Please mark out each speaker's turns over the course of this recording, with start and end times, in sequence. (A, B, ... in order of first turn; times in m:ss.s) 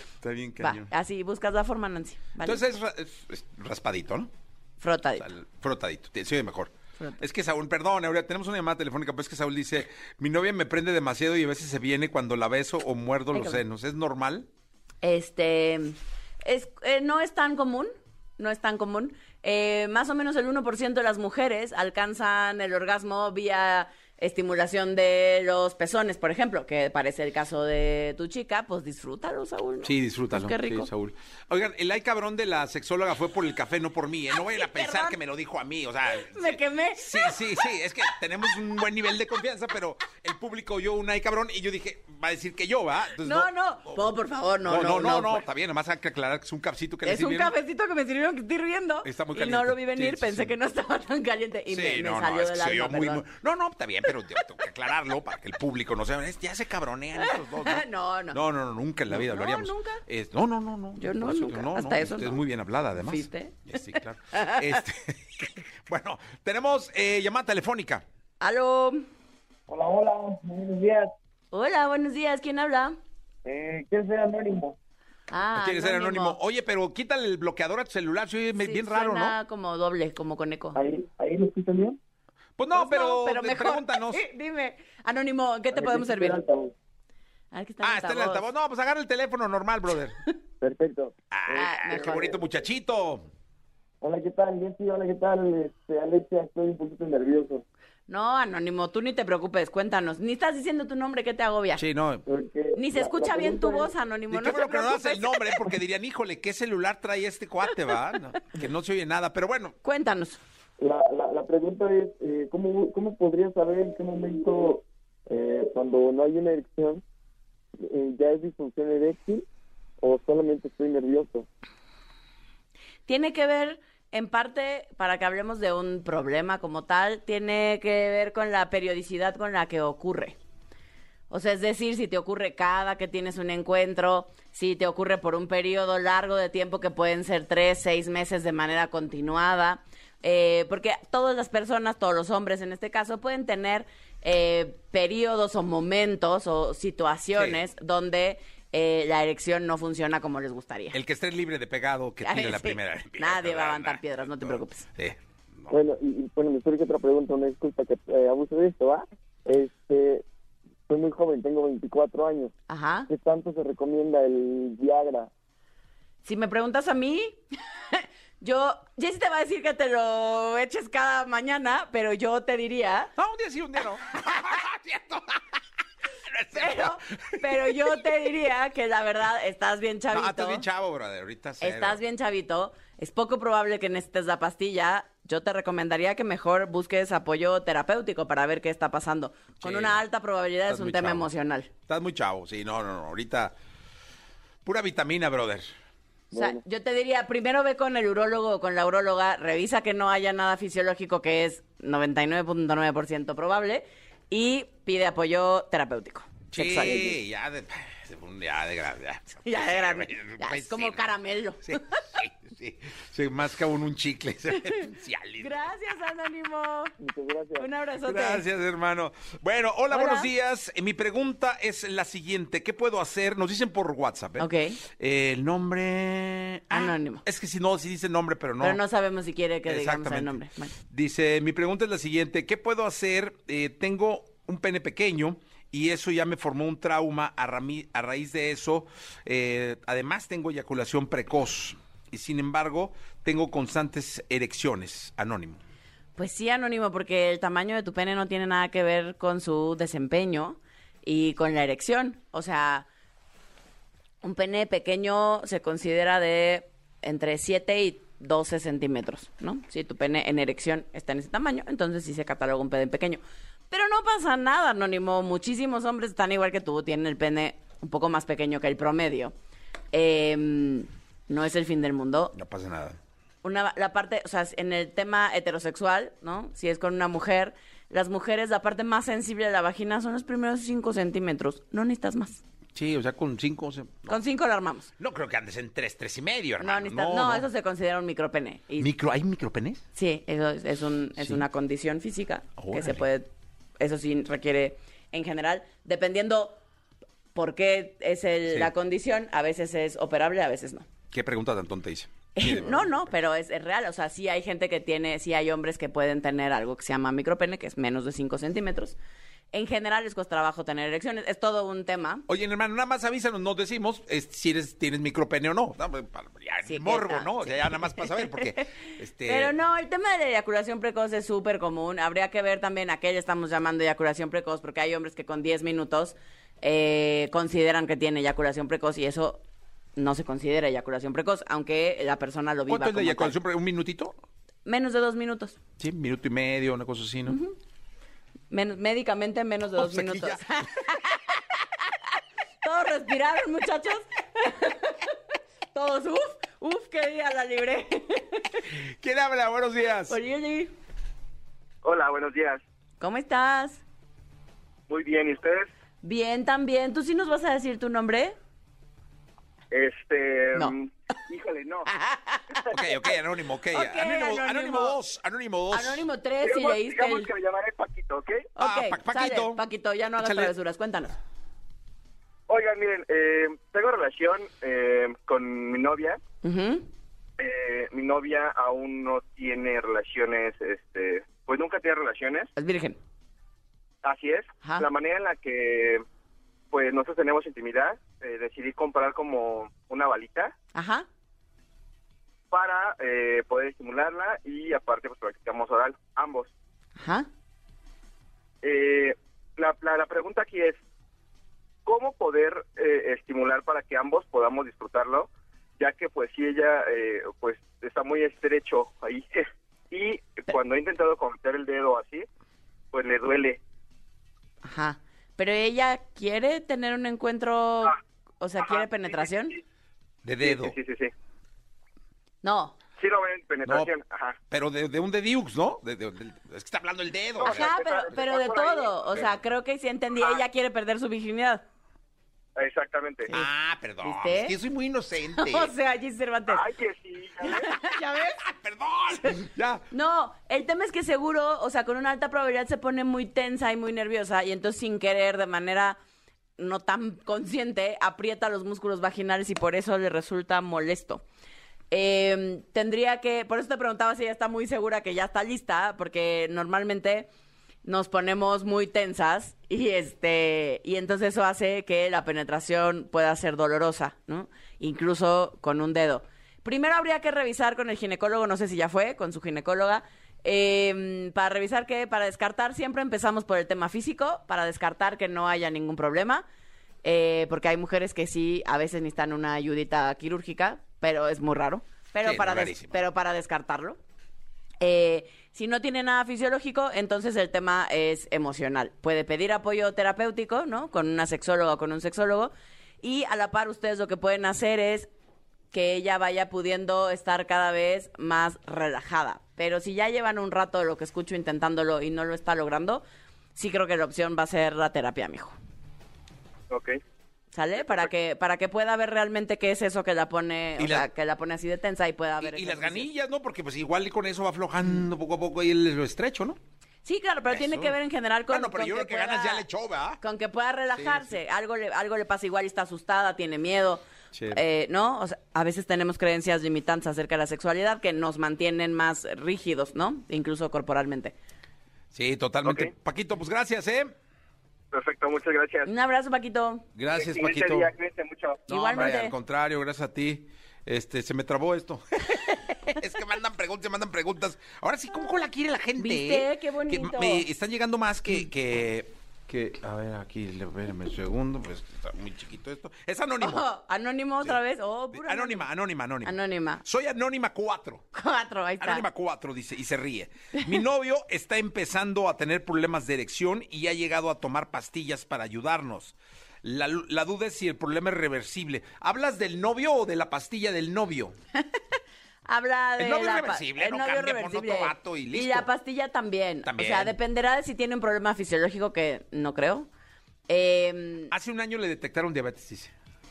0:00.2-0:00.9 A
0:00.6-0:02.6 B
0:02.4-0:04.3 A
0:04.8-0:05.3 B
0:05.2-0:14.5 A
0:13.3-0:13.6 B
0:15.0-0:30.9 B
0:29.8-0:44.0 A
0:34.5-0:35.2 B
0:36.2-0:37.4 B
0:43.2-0:45.4 B
0:44.7-0:47.5 A
0:47.0-0:53.2 B
0:49.0-0:50.5 A
0:51.7-1:08.0 A
0:57.2-0:58.4 B
0:59.1-1:00.0 B
1:01.0-1:02.4 B
1:03.0-1:04.8 B
1:08.4-1:09.0 B
1:09.7-1:11.1 C
1:11.5-1:13.0 B
1:13.4-1:14.8 C
1:15.3-1:16.4 B
1:15.6-1:19.4 A
1:18.6-1:20.8 B
1:20.8-1:22.0 C
1:22.6-1:24.2 A
1:22.7-1:26.4 B
1:25.7-1:26.7 C
1:27.5-1:28.4 B
1:27.8-1:30.2 A
1:30.6-1:32.5 C
1:31.3-1:33.2 A
1:31.6-1:32.3 B
1:34.0-1:37.6 C
1:38.1-1:41.8 B
1:41.8-1:42.2 A
1:42.2-1:43.9 C
1:42.7-1:45.6 B
1:44.3-1:49.8 A
1:49.8-1:50.4 B
1:50.8-1:57.0 C
1:57.8-1:59.4 C
2:00.0-2:01.5 C
2:03.1-2:10.4 B
2:11.3-2:31.0 B
2:30.9-2:35.8 A
2:32.2-2:34.9 B
2:35.7-2:40.2 C
2:40.9-2:42.5 C
2:42.7-2:43.1 B
2:43.1-2:45.3 C
2:46.2-2:53.1 B
2:53.2-2:55.5 A
2:56.3-2:57.8 A
2:56.5-3:00.6 B
3:00.1-3:02.0 A
3:01.6-3:11.7 B
3:09.6-3:10.0 A
3:10.7-3:11.3 A
3:11.8-3:13.5 A
3:14.6-3:15.7 A
3:16.3-3:16.6 C
3:16.3-3:27.1 B
3:26.5-3:31.0 A
3:29.4-3:32.2 B
3:31.7-3:35.6 A
3:35.4-3:36.9 B
3:37.0-3:37.7 C
3:37.6-3:38.4 B
3:38.0-3:48.8 A
3:39.9-3:40.3 B
3:44.4-3:44.8 B
3:46.7-3:47.2 B
3:48.6-3:50.8 B
3:49.7-4:05.6 A
4:06.2-4:12.9 B
4:14.2-4:29.3 B
4:29.9-4:32.3 B
4:32.3-4:33.0 A
4:33.4-4:42.4 B
4:42.8-4:44.2 A
4:44.1-4:44.9 B
4:45.0-4:47.5 A
4:46.6-4:48.9 B
4:48.8-4:49.8 A
4:49.9-4:53.3 B
4:51.2-4:51.4 A
4:52.6-4:53.0 A
4:53.8-4:56.6 B
4:57.3-5:00.9 B
5:01.1-5:03.0 A
5:02.3-5:09.0 B
5:09.5-5:12.2 B
5:12.3-5:19.6 A
5:16.7-5:18.5 B
5:19.2-5:29.4 B
5:30.0-5:33.3 B
5:32.7-5:34.2 A
5:34.6-5:35.6 B
5:35.8-5:37.4 A
5:37.3-5:37.6 B
5:38.5-5:41.8 B
5:39.8-5:40.5 A
5:42.6-5:45.2 B
5:45.7-5:48.6 B
5:48.7-5:50.2 A
5:50.1-5:50.7 B
5:51.8-5:52.6 D
5:53.0-5:53.8 B
5:54.9-5:55.7 D
5:56.0-5:58.4 B
5:59.7-6:01.9 D
6:01.8-6:03.0 B
6:02.7-6:06.1 A
6:03.7-6:05.0 B
6:05.7-6:07.3 B
6:06.4-6:08.5 D
6:08.6-6:11.2 B
6:08.6-6:09.6 A
6:10.2-6:10.5 A
6:12.5-6:16.2 D
6:16.4-6:16.9 B
6:17.4-6:22.5 D
6:22.6-6:23.0 B
6:24.0-6:26.0 D
6:24.6-6:24.9 B
6:26.7-6:30.5 D
6:30.7-6:31.1 B
6:32.5-6:36.5 D
6:37.0-6:37.3 B
6:38.6-6:40.8 D
6:41.8-6:45.3 D
6:45.8-6:49.3 D
6:49.9-6:52.2 D
6:52.9-6:53.6 D
6:54.6-6:59.6 B
7:00.2-7:00.8 A
7:00.4-7:01.1 D
7:02.4-7:02.8 B
7:03.0-7:04.4 D
7:03.6-7:03.9 A
7:04.5-7:08.3 A
7:07.4-7:11.6 B
7:07.4-7:08.9 D
7:12.6-7:13.3 D
7:13.3-7:15.7 A
7:14.0-7:14.6 B
7:15.3-7:16.7 B
7:16.6-7:17.6 D
7:17.4-7:18.4 B
7:18.2-7:19.8 A
7:19.9-7:26.0 B
7:26.6-7:31.2 B
7:31.9-7:37.3 B
7:37.8-7:56.4 B
7:57.0-8:04.0 B
8:02.2-8:03.0 A
8:04.8-8:15.1 B
8:15.7-8:23.0 B
8:23.6-8:25.6 B
8:27.5-8:33.1 B
8:30.8-8:31.1 A
8:32.4-8:36.6 A
8:37.0-8:39.6 B
8:37.5-8:37.9 A
8:38.5-8:40.2 A
8:40.2-8:51.4 B
8:40.9-8:41.4 A
8:44.3-8:44.6 A
8:52.1-8:54.1 A
8:54.9-8:55.9 D
8:55.8-8:56.8 B
8:57.0-8:57.9 A
8:57.2-8:58.6 D
8:58.7-9:13.7 A
8:58.7-8:59.4 B
9:06.0-9:07.4 B
9:13.4-9:15.6 B
9:15.1-9:18.0 A
9:16.2-9:16.8 B
9:18.1-9:19.0 B
9:18.8-9:31.4 A
9:31.6-9:39.9 B
9:33.0-9:35.7 A
9:36.6-9:37.2 A
9:40.5-9:41.3 B
9:41.3-9:42.9 A